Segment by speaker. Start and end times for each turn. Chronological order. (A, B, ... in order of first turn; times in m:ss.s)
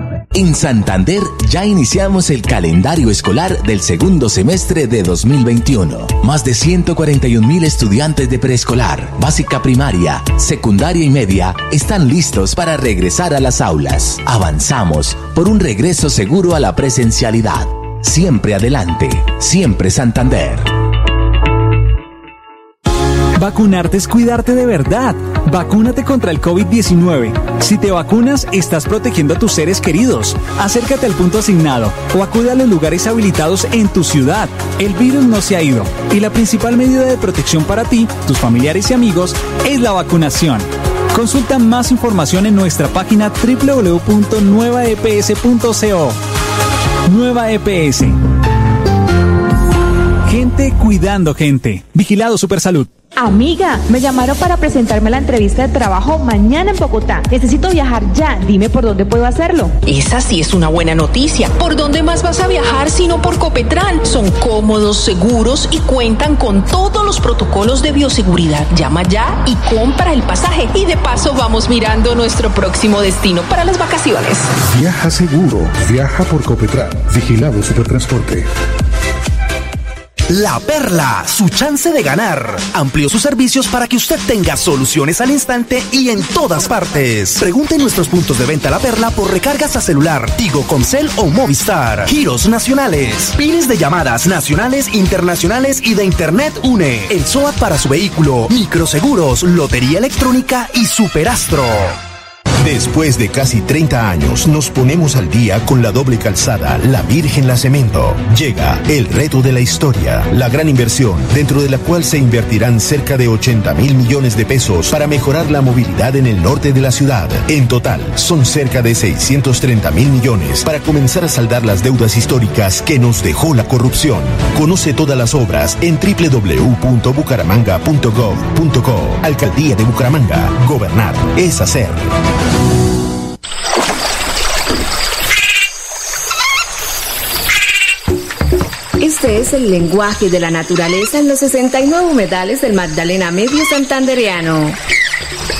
0:00.3-0:20.7 A
0:23.4-0:46.2 B
0:47.1-0:48.2 B
0:50.3-0:52.9 B
0:53.2-0:59.7 C
0:59.8-1:14.5 D
1:14.7-1:18.5 E
1:20.3-1:42.0 F
1:42.6-2:12.0 G
2:19.0-2:24.8 H